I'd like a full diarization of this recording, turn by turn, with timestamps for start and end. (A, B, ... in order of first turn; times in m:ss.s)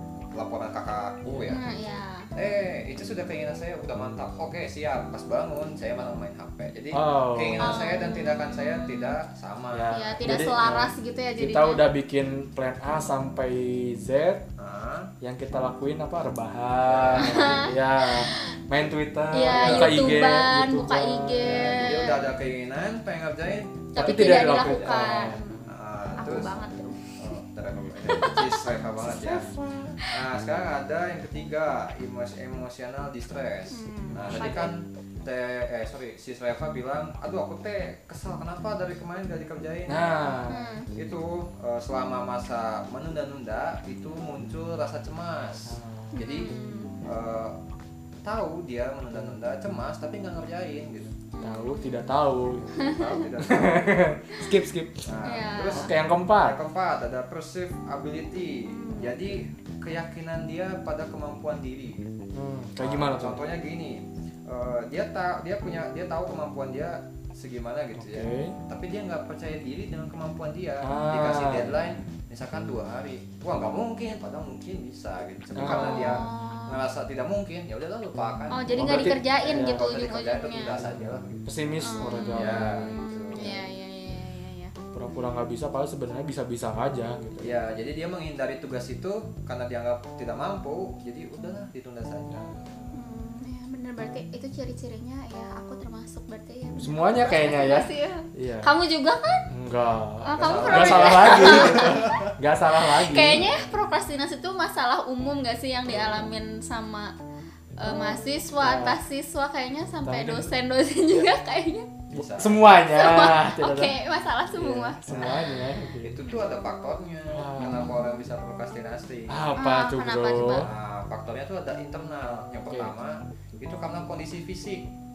0:00.3-0:01.6 A
0:01.3-0:01.6 B
0:01.5-0:02.3 C
0:02.4-0:10.0 A
0:06.9-0:07.8 B
0:07.6-0:09.2 C
0:09.7-0:14.4 B
0:09.9-0:11.8 C
0:14.6-0:15.1 A
0:15.2-0:22.0 B
0:16.9-0:17.7 A
0:17.2-0:18.4 C
0:19.3-0:22.2 C
0:19.6-0:20.1 A
0:21.4-0:26.6 A
0:23.9-0:25.6 C
0:24.0-0:25.7 B
0:26.2-0:27.1 C
0:27.2-0:29.5 A
0:28.1-0:28.5 C
0:29.0-0:30.0 B
0:30.1-0:47.6 A
0:33.7-0:34.7 C
0:34.1-0:34.6 B
0:39.9-0:40.7 B
0:40.5-0:40.9 C
0:45.7-0:46.2 B
0:46.1-0:47.0 C
0:48.2-0:51.2 A
0:51.4-0:52.1 C
0:51.4-0:52.8 B
0:52.8-0:54.0 A
0:52.8-0:53.1 C
0:53.4-0:55.0 B
0:55.0-1:02.1 A
0:55.3-0:55.9 C
0:55.7-0:56.6 B
0:58.7-0:59.2 C
1:02.4-1:03.4 B
1:02.8-1:21.3 A
1:08.0-1:08.6 B
1:10.8-1:12.0 B
1:15.6-1:16.3 B
1:15.6-1:16.8 C
1:18.5-1:20.8 C
1:18.8-1:19.9 B
1:20.8-1:23.6 B
1:21.8-1:24.7 C
1:22.3-1:23.7 A
1:24.9-1:27.6 B
1:27.4-1:32.4 A
1:32.3-1:32.9 B
1:32.9-1:39.4 C
1:36.8-1:38.7 B
1:39.5-1:43.5 B
1:40.2-1:42.2 C
1:40.4-1:42.3 A
1:42.9-1:47.1 C
1:43.2-1:43.6 A
1:47.8-1:51.9 C
1:48.6-1:49.0 B
1:50.0-1:50.5 B
1:52.1-1:52.6 A
1:52.1-1:54.0 B
1:52.9-1:55.7 C
1:54.5-1:56.2 B
1:56.0-1:59.5 A
1:57.3-1:58.0 B
1:57.6-1:58.2 C
1:59.3-2:00.7 B
1:59.6-2:00.7 C
2:00.6-2:04.9 A